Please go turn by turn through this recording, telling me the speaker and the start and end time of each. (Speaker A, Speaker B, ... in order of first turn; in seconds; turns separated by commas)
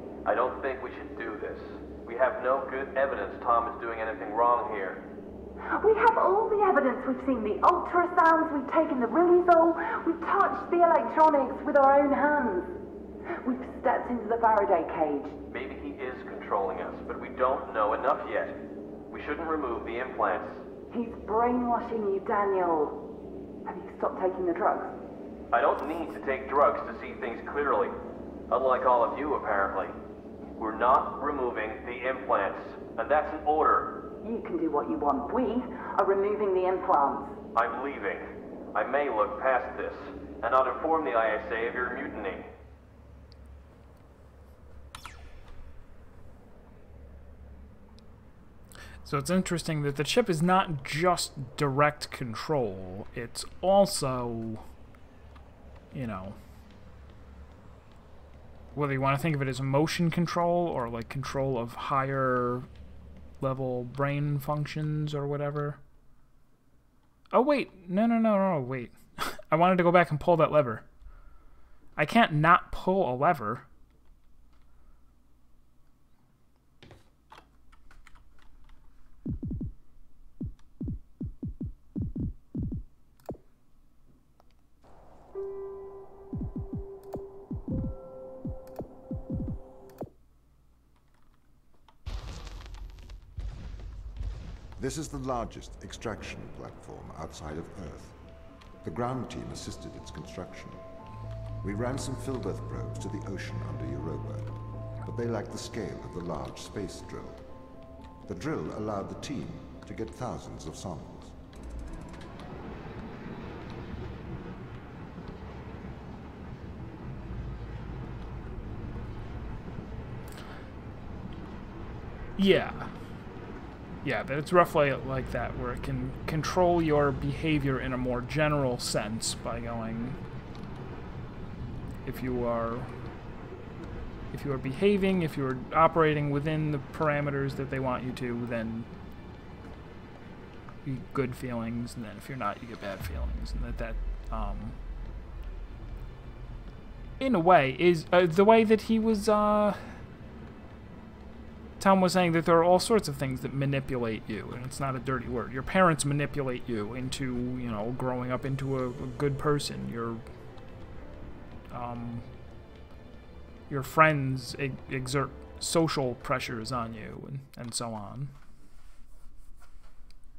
Speaker A: 0.2-5.0, Speaker B: 5.6-12.7, Speaker B: 13.4-15.4, Speaker A: 15.5-18.6, Speaker A: 19.1-20.6, Speaker B: 20.9-23.0, Speaker B: 23.6-24.9, Speaker A: 25.5-27.9, Speaker A: 28.5-30.0, Speaker A: 30.6-34.0, Speaker B: 34.2-37.4, Speaker A: 37.5-42.5, Speaker C: 49.0-54.6, Speaker C: 55.9-56.4, Speaker C: 58.7-62.7, Speaker C: 63.4-65.8, Speaker C: 67.3-70.9, Speaker C: 72.0-73.7, Speaker D: 94.8-98.2, Speaker D: 98.8-100.8, Speaker D: 101.6-107.4, Speaker D: 108.3-111.4, Speaker C: 122.4-122.9, Speaker C: 124.0-130.2, Speaker C: 132.0-132.9, Speaker C: 134.3-138.9, Speaker C: 140.8-144.8, Speaker C: 147.2-150.0, Speaker C: 151.8-160.2, Speaker C: 161.7-162.3, Speaker C: 163.7-168.3